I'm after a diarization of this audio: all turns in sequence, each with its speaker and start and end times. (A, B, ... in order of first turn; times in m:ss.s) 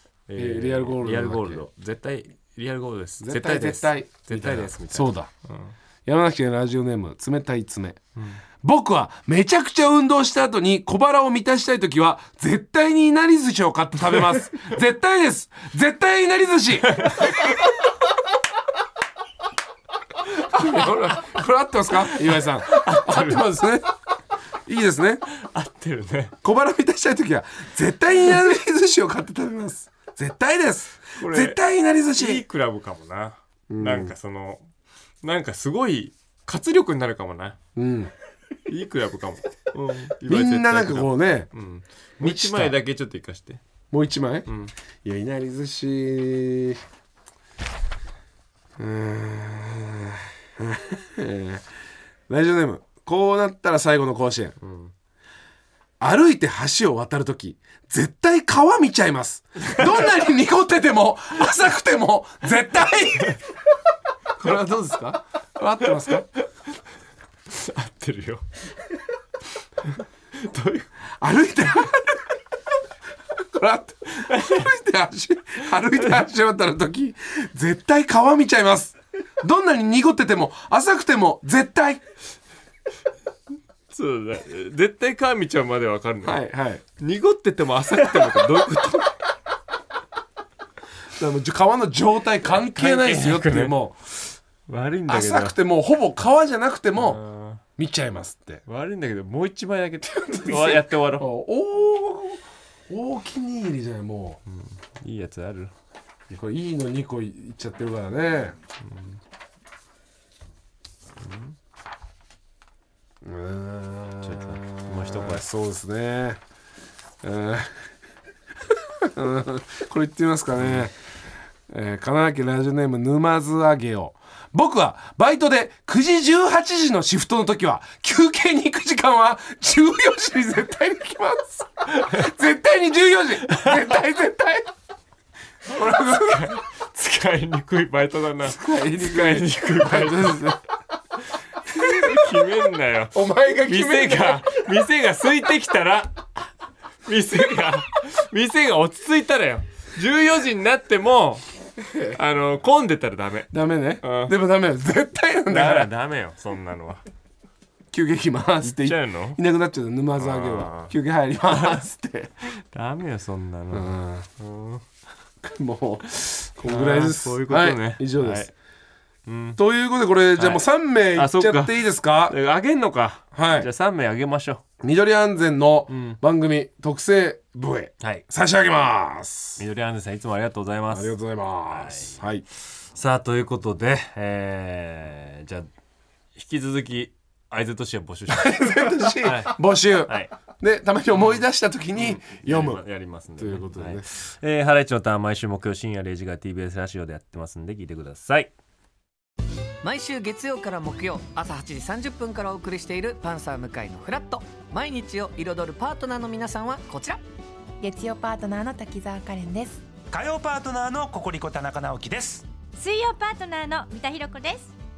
0:00.3-0:05.8 A
0:00.4-0:01.6 B
0:03.2-0:05.3 B
0:06.1-0:08.0 B
0:08.2-0:08.4 A
0:08.6-0:17.5 B
0:16.9-0:17.5 A
0:20.4-0:23.9 B
0:20.6-0:21.3 A
0:22.0-0:23.5 A
0:24.7-0:25.2 B
0:25.3-0:26.4 A
0:26.4-0:32.4 B
0:31.1-0:31.6 A
0:32.2-0:34.7 A
0:33.7-0:34.2 B
0:35.2-0:37.6 A
0:37.8-0:38.1 B
0:38.7-0:43.6 A
0:40.2-0:41.5 B
0:42.2-0:42.8 B
0:43.9-0:44.5 B
0:44.5-0:44.7 A
0:45.0-0:46.8 B
0:48.8-0:51.6 B
0:52.3-0:54.6 B
0:54.6-0:54.9 A
0:56.0-1:03.4 B
1:04.4-1:06.3 B
1:05.9-1:06.2 A
1:07.5-1:08.4 A
1:09.8-1:10.9 A
1:11.2-1:12.3 B
1:13.4-1:22.0 B
1:14.2-1:14.7 A
1:15.6-1:16.3 A
1:23.9-1:26.4 A
1:26.2-1:26.8 B
1:27.0-1:29.2 A
1:31.2-1:34.0 B
1:32.5-1:35.6 A
1:35.1-1:37.2 B
1:37.0-1:37.6 A
1:37.8-1:38.6 B
1:38.7-1:41.3 A
1:40.1-1:44.4 B
1:44.5-1:45.7 A
1:46.3-1:48.6 B
1:48.8-1:49.2 A
1:51.2-1:51.6 A
1:53.2-1:56.4 B
1:54.2-1:55.4 A
1:57.2-1:57.9 B
1:59.1-2:00.9 B
2:00.6-2:00.9 A
2:01.7-2:14.7 B
2:13.5-2:13.9 A
2:15.7-2:16.6 B
2:15.7-2:20.6 A
2:18.4-2:20.6 B
2:21.6-2:26.5 A
2:23.1-2:24.5 B
2:27.0-2:31.5 A
2:32.0-2:34.4 A
2:33.5-2:35.9 B
2:35.5-2:37.0 A
2:37.9-2:42.3 B
2:38.6-2:39.4 A
2:40.2-2:40.9 A
2:41.5-2:41.9 A
2:42.5-2:44.8 A
2:43.7-2:44.3 B
2:45.4-2:48.5 B
2:46.6-2:48.5 A
2:49.3-2:49.6 A
2:49.6-2:52.4 B
2:50.4-2:54.6 A
2:53.3-2:53.7 B
2:54.8-2:59.6 B
2:55.9-2:56.2 A
2:59.6-3:05.7 A
3:00.9-3:02.4 B
3:06.4-3:10.4 A
3:08.3-3:12.8 B
3:11.1-3:18.5 A
3:13.4-3:14.2 B
3:19.8-3:27.2 C
3:27.8-3:29.8 D
3:30.3-3:32.2 E
3:32.8-3:34.7 F